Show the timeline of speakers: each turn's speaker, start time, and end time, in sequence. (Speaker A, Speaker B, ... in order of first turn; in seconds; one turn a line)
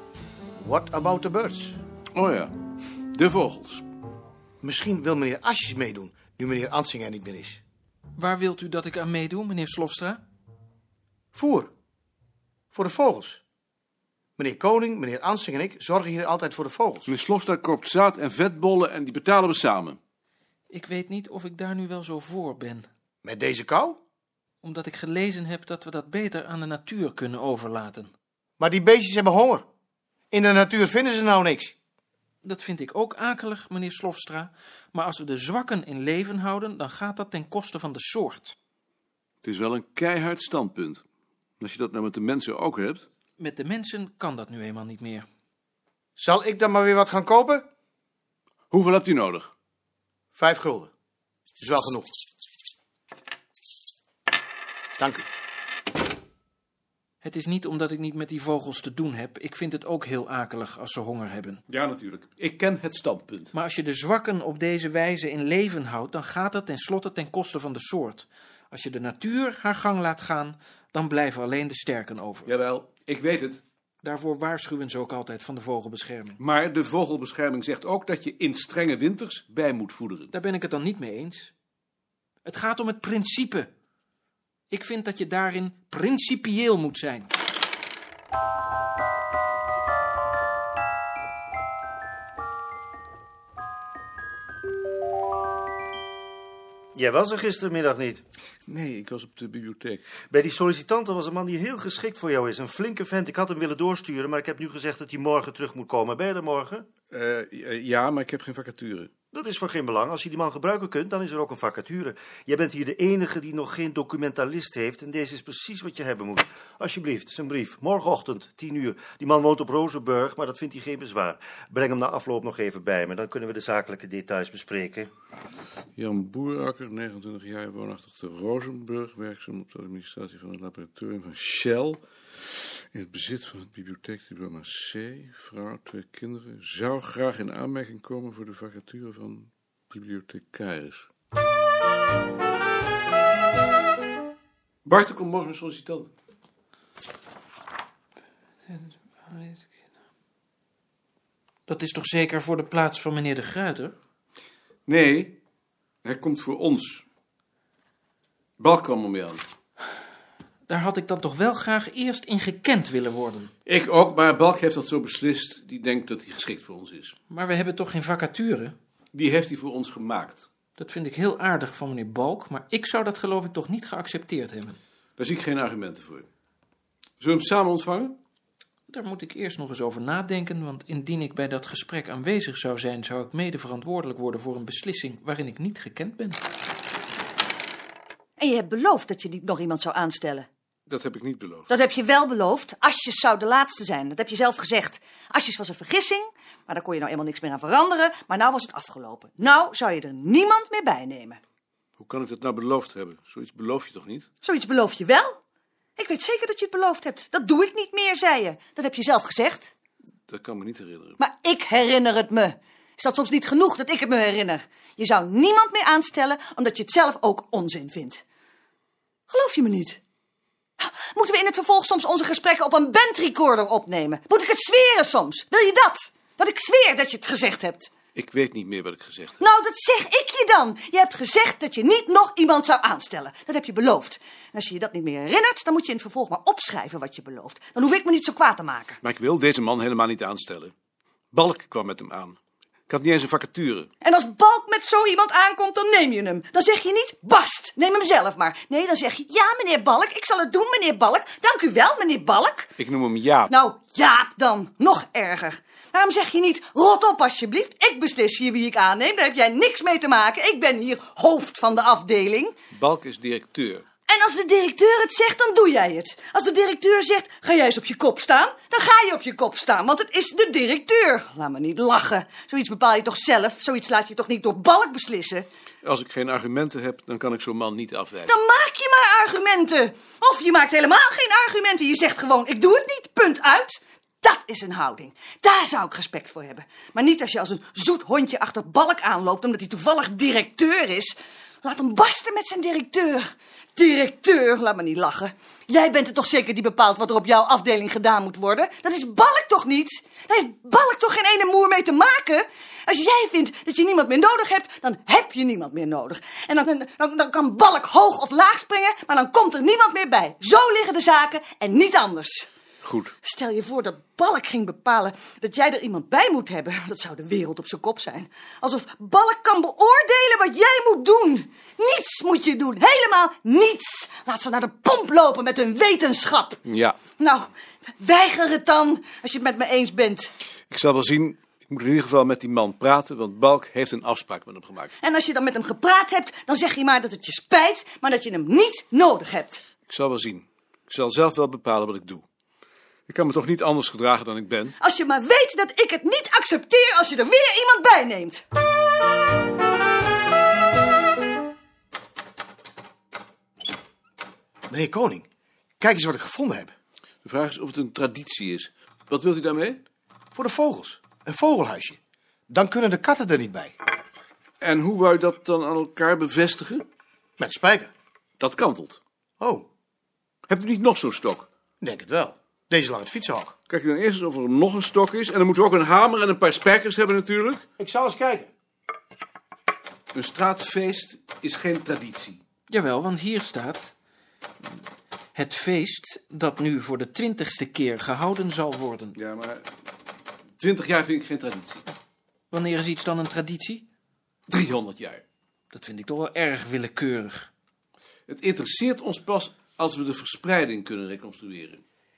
Speaker A: 0.6-1.8
Speaker B: 2.1-2.5
Speaker B: 3.1-3.9
Speaker A: 4.6-7.6
Speaker C: 8.2-10.2
Speaker A: 11.3-11.7
Speaker A: 12.7-13.4
Speaker A: 14.4-17.1
Speaker B: 17.1-20.0
Speaker C: 20.7-22.9
Speaker A: 23.2-24.0
Speaker C: 24.6-28.1
Speaker A: 28.6-29.6
Speaker A: 30.3-31.7
Speaker C: 32.4-38.5
Speaker B: 39.4-41.0
Speaker B: 41.6-43.0
Speaker C: 43.4-45.2
Speaker A: 46.2-47.6
Speaker B: 48.7-49.5
Speaker A: 50.4-50.9
Speaker A: 51.6-52.1
Speaker A: 55.0-55.2
Speaker C: 57.2-61.6
Speaker B: 61.7-63.5
Speaker C: 63.5-72.5
Speaker B: 72.5-73.6
Speaker C: 74.0-76.4
Speaker B: 76.4-80.3
Speaker C: 80.3-81.5
Speaker C: 82.4-83.7
Speaker C: 84.7-87.3
Speaker D: 96.9-98.2
Speaker B: 98.7-100.0
Speaker D: 100.3-106.9
Speaker B: 107.1-109.1
Speaker D: 109.3-125.1
Speaker B: 126.0-132.0
Speaker B: 132.9-141.1
Speaker B: 144.8-146.1
Speaker C: 148.7-149.7
Speaker C: 151.7-154.0
Speaker B: 154.8-155.4
Speaker B: 156.0-157.0
Speaker B: 158.6-159.4
Speaker C: 160.7-163.5
Speaker B: 163.7-167.1
Speaker C: 167.3-168.8
Speaker B: 169.1-170.5
Speaker C: 170.8-174.8
Speaker B: 175.2-176.3
Speaker B: 177.2-178.2
Speaker C: 178.9-186.4
Speaker E: 188.4-190.5
Speaker B: 190.9-191.7
Speaker E: 191.7-201.4
Speaker B: 202.0-204.3
Speaker E: 204.4-205.4
Speaker E: 205.9-209.7
Speaker B: 210.3-211.2
Speaker E: 211.2-218.2
Speaker E: 219.3-220.0
Speaker E: 220.8-227.9
Speaker B: 228.1-229.4
Speaker E: 229.4-239.0
Speaker B: 239.0-240.7
Speaker B: 241.3-242.4
Speaker B: 242.9-243.9
Speaker E: 244.0-252.7
Speaker B: 252.8-253.5
Speaker E: 253.5-262.5
Speaker B: 262.7-263.9
Speaker E: 264.0-275.5
Speaker B: 275.8-278.4
Speaker E: 278.3-312.5
Speaker B: 312.8-313.1
Speaker E: 313.2-326.6
Speaker B: 326.6-327.1
Speaker E: 327.1-330.3
Speaker B: 330.7-334.9
Speaker E: 335.0-339.6
Speaker B: 339.9-342.2
Speaker B: 343.1-344.8
Speaker E: 344.8-348.4
Speaker A: 354.7-355.2
Speaker A: 355.8-356.7
Speaker B: 357.2-359.8
Speaker A: 360.3-362.0
Speaker A: 362.5-363.7
Speaker B: 364.6-366.9
Speaker A: 367.4-367.9
Speaker B: 368.4-369.0
Speaker A: 369.4-369.6
Speaker B: 370.5-371.5
Speaker A: 371.8-373.6
Speaker B: 373.7-377.6
Speaker A: 377.8-378.5
Speaker B: 380.1-382.4
Speaker C: 382.7-383.9
Speaker C: 385.3-389.1
Speaker B: 389.2-389.6
Speaker B: 390.6-391.9
Speaker C: 392.5-393.9
Speaker B: 394.5-395.2
Speaker C: 395.7-397.5
Speaker B: 398.3-401.8